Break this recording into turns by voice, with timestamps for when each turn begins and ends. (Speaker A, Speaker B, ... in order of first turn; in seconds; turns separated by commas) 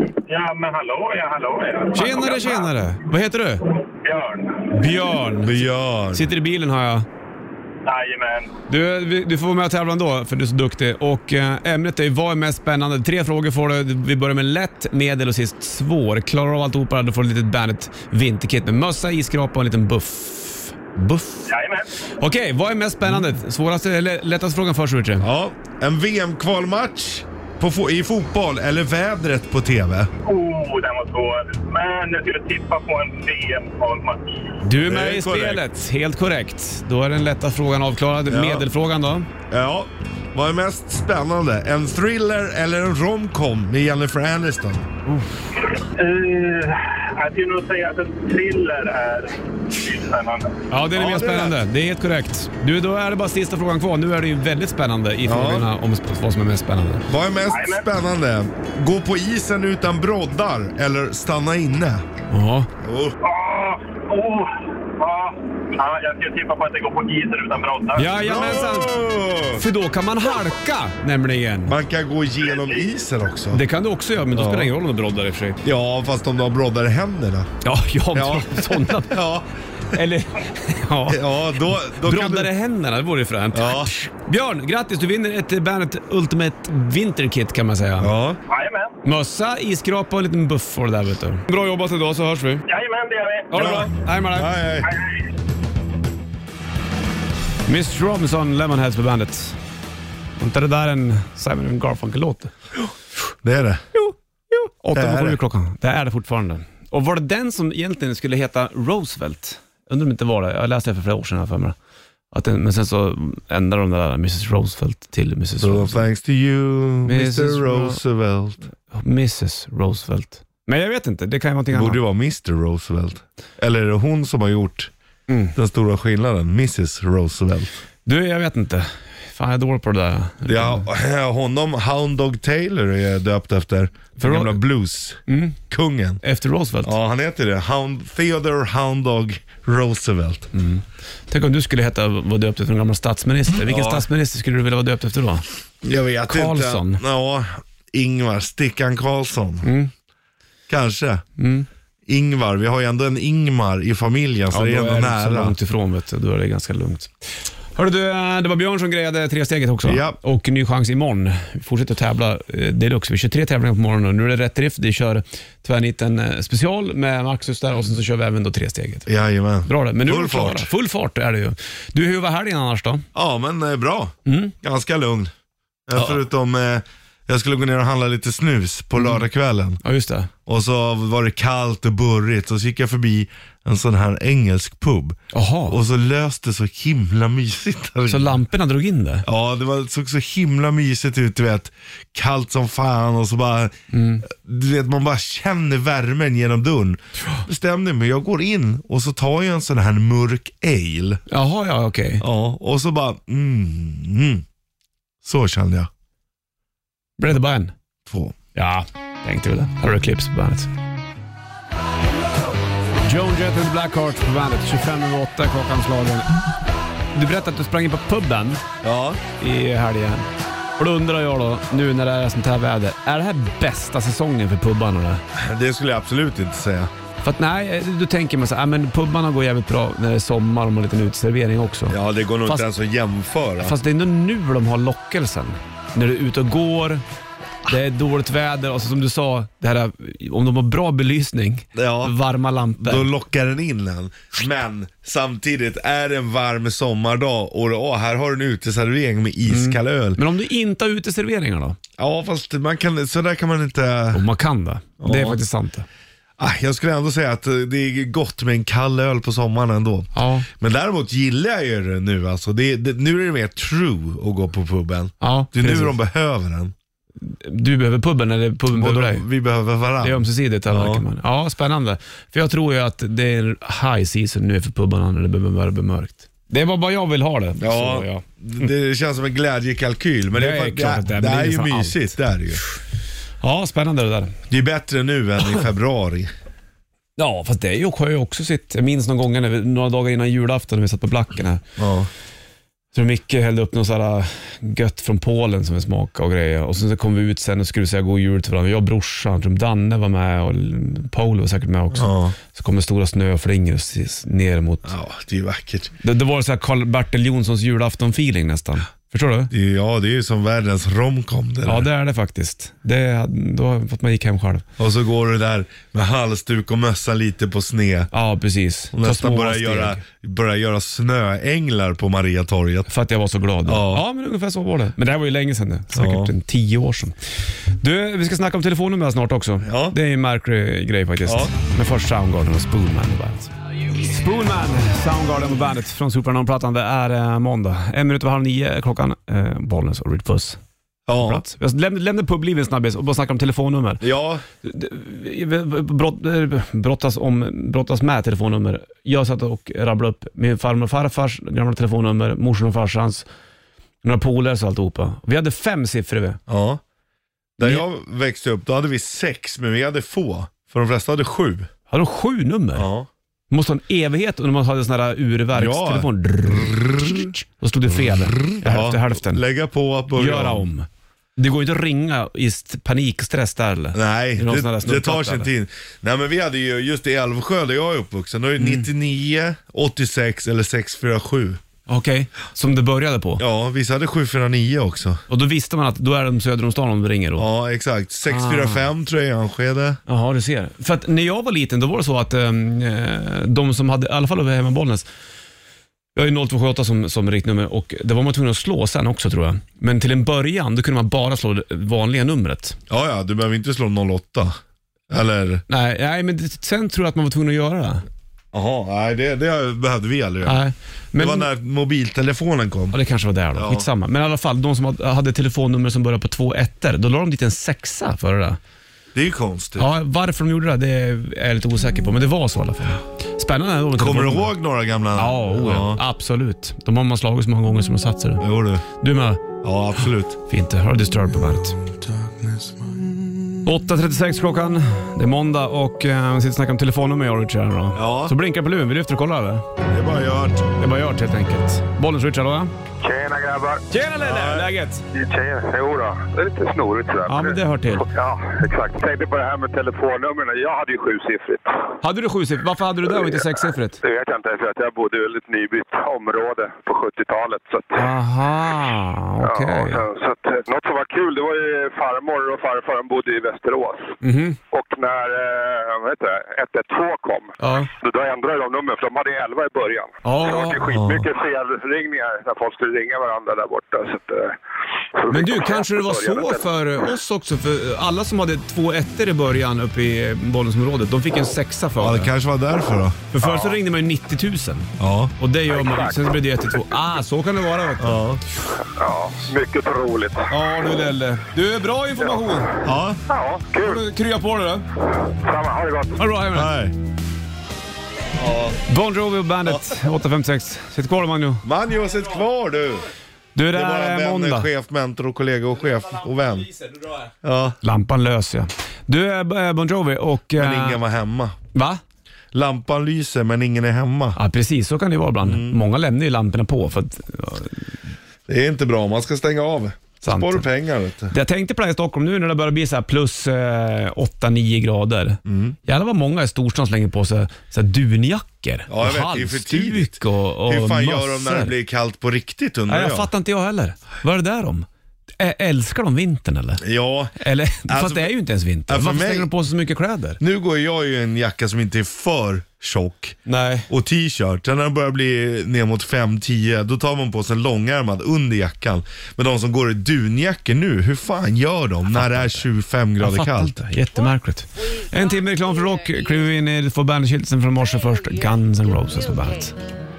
Speaker A: 0.3-2.7, Speaker B: 1.9-3.6, Speaker A: 4.0-4.7, Speaker B: 4.7-7.0, Speaker C: 5.4-6.2, Speaker A: 7.8-8.5, Speaker B: 8.7-21.5, Speaker A: 21.5-22.0, Speaker B: 22.2-25.3, Speaker C: 25.2-30.1, Speaker A: 30.2-34.4, Speaker B: 34.6-39.3, Speaker C: 34.8-35.6, Speaker C: 38.3-38.7, Speaker C: 39.5-44.9, Speaker B: 45.1-45.3, Speaker A: 45.8-50.5, Speaker B: 50.7-57.0, Speaker C: 50.9-51.6, Speaker C: 55.2-55.7, Speaker C: 57.1-62.0, Speaker A: 57.5-57.9, Speaker B: 62.3-62.7, Speaker C: 62.8-63.1, Speaker A: 63.2-68.2, Speaker B: 68.0-69.0, Speaker C: 68.2-69.6, Speaker B: 69.5-71.7, Speaker C: 71.7-73.6, Speaker B: 73.5-75.6, Speaker C: 74.3-74.7, Speaker C: 75.6-77.5, Speaker B: 77.6-79.3, Speaker C: 78.1-80.0, Speaker B: 79.9-88.1, Speaker C: 81.1-82.5, Speaker C: 83.5-83.9, Speaker C: 88.0-88.4, Speaker A: 88.5-88.9, Speaker B: 89.0-92.6, Speaker A: 92.7-93.7, Speaker B: 93.5-94.5, Speaker C: 93.5-94.9, Speaker A: 94.8-95.1, Speaker B: 97.7-99.6, Speaker B: 100.4-102.5, Speaker C: 103.4-103.8, Speaker B: 103.9-111.8, Speaker C: 104.9-105.4, Speaker B: 112.3-116.0, Speaker C: 115.6-118.6, Speaker B: 117.0-118.0, Speaker B: 118.9-122.0, Speaker C: 121.7-124.9, Speaker B: 125.3-125.5, Speaker C: 125.5-127.7, Speaker B: 128.1-130.8, Speaker C: 130.4-136.2, Speaker B: 134.2-134.6, Speaker B: 135.3-135.6, Speaker B: 136.2-136.9, Speaker C: 136.8-140.5, Speaker B: 140.5-145.4, Speaker C: 143.6-144.1, Speaker C: 145.8-149.7, Speaker B: 146.3-147.0, Speaker B: 149.6-149.9, Speaker C: 150.7-151.2, Speaker B: 151.4-151.7, Speaker C: 152.1-155.6, Speaker B: 154.5-157.1, Speaker B: 157.8-169.1, Speaker C: 159.8-160.2, Speaker C: 169.1-170.7, Speaker B: 169.7-173.0, Speaker C: 173.1-175.3, Speaker B: 174.2-174.5, Speaker C: 175.9-179.8, Speaker B: 179.8-180.3, Speaker C: 180.5-188.4, Speaker B: 185.3-185.8, Speaker B: 188.1-189.2, Speaker C: 189.2-201.2, Speaker B: 193.9-194.2, Speaker B: 201.3-202.2, Speaker C: 202.2-204.4, Speaker C: 205.2-205.9, Speaker B: 207.2-207.7, Speaker C: 208.1-208.3, Speaker B: 208.5-210.7, Speaker B: 213.0-216.3, Speaker B: 217.1-218.6, Speaker C: 218.8-219.2, Speaker B: 219.4-220.3, Speaker B: 220.8-225.2, Speaker C: 225.3-226.9, Speaker B: 227.2-232.7, Speaker C: 231.9-233.7, Speaker B: 233.6-237.0, Speaker B: 237.7-243.1, Speaker C: 241.7-242.1, Speaker C: 242.8-250.2, Speaker B: 249.5-251.8, Speaker C: 252.0-254.2, Speaker B: 254.1-255.9, Speaker C: 255.0-255.4, Speaker C: 256.4-266.7, Speaker B: 260.1-260.5, Speaker B: 265.2-265.9, Speaker B: 267.2-269.2, Speaker C: 268.7-271.0, Speaker B: 270.0-278.2, Speaker C: 277.6-282.6, Speaker B: 280.3-282.1, Speaker B: 283.4-284.4, Speaker C: 284.5-286.3, Speaker B: 287.2-291.6, Speaker C: 291.8-292.1, Speaker B: 292.9-304.9, Speaker C: 301.9-302.4, Speaker C: 304.8-305.9, Speaker B: 306.0-309.5, Speaker C: 309.5-311.9, Speaker B: 311.6-314.6, Speaker C: 314.8-318.1, Speaker B: 318.1-320.0, Speaker C: 318.9-322.9, Speaker B: 322.9-327.1, Speaker C: 323.6-324.0, Speaker C: 325.9-326.3, Speaker B: 327.8-340.6, Speaker C: 329.6-330.0, Speaker C: 331.2-331.5, Speaker C: 341.1-341.4, Speaker B: 341.2-344.0, Speaker C: 344.0-344.4, Speaker B: 344.6-353.2, Speaker B: 354.0-356.4, Speaker C: 356.5-356.8, Speaker C: 357.6-361.7, Speaker B: 361.9-362.9, Speaker C: 362.7-363.1, Speaker B: 363.5-369.4, Speaker C: 365.5-367.3, Speaker C: 367.9-370.6, Speaker B: 370.1-375.5, Speaker C: 373.9-381.6, Speaker B: 378.6-378.9, Speaker B: 381.9-383.4, Speaker C: 383.4-385.2, Speaker B: 385.3-387.5, Speaker C: 387.4-390.0, Speaker B: 388.3-388.8, Speaker B: 390.1-395.1, Speaker B: 396.1-402.8, Speaker C: 402.9-404.6, Speaker C: 405.1-405.6, Speaker B: 405.7-408.0, Speaker C: 408.5-410.6, Speaker B: 410.4-411.5, Speaker C: 411.1-413.0, Speaker B: 412.9-418.6, Speaker C: 413.5-413.9, Speaker C: 419.1-419.9, Speaker B: 419.8-424.5, Speaker C: 423.9-426.0, Speaker B: 425.1-429.4, Speaker C: 428.4-428.8, Speaker C: 429.6-430.4, Speaker B: 430.5-431.8, Speaker B: 433.6-439.6, Speaker C: 437.9-438.3, Speaker C: 439.8-440.7, Speaker B: 440.8-442.7, Speaker D: 443.0-443.8, Speaker B: 443.9-445.0, Speaker C: 444.2-444.7, Speaker D: 445.1-451.9, Speaker B: 447.2-448.1, Speaker B: 452.0-454.0, Speaker D: 453.1-453.4, Speaker D: 454.0-458.1, Speaker B: 457.9-460.0, Speaker D: 459.4-464.1, Speaker B: 464.2-464.6, Speaker D: 464.7-474.5, Speaker B: 467.6-467.9, Speaker B: 470.2-470.9, Speaker C: 470.9-471.3, Speaker D: 475.2-476.7, Speaker B: 475.3-482.3, Speaker C: 482.0-483.3, Speaker B: 483.3-488.2, Speaker D: 483.4-483.7, Speaker C: 485.0-485.3, Speaker D: 485.7-486.2, Speaker C: 488.0-488.4, Speaker D: 488.8-490.5, Speaker B: 490.5-492.8, Speaker C: 492.8-493.2, Speaker D: 493.3-494.0, Speaker B: 493.8-494.8, Speaker D: 495.4-496.2, Speaker B: 496.2-496.7, Speaker C: 496.5-496.9, Speaker C: 498.3-498.8, Speaker B: 498.9-501.6, Speaker C: 499.6-499.9, Speaker C: 501.6-503.1, Speaker B: 503.5-504.7, Speaker C: 503.7-506.8, Speaker C: 507.3-507.8, Speaker B: 507.8-511.0, Speaker C: 510.6-511.6, Speaker B: 511.7-512.0, Speaker C: 512.5-514.4, Speaker B: 514.3-517.9, Speaker C: 515.4-515.8, Speaker C: 518.5-521.3, Speaker B: 520.2-520.6, Speaker B: 521.3-531.8, Speaker C: 525.5-525.8, Speaker C: 528.9-533.3, Speaker B: 532.9-534.9, Speaker B: 535.4-536.8, Speaker C: 536.8-538.3, Speaker B: 537.4-540.4, Speaker C: 538.9-539.5, Speaker C: 540.4-543.4, Speaker B: 543.5-543.9, Speaker C: 543.9-553.8, Speaker B: 552.1-552.6, Speaker B: 553.2-559.8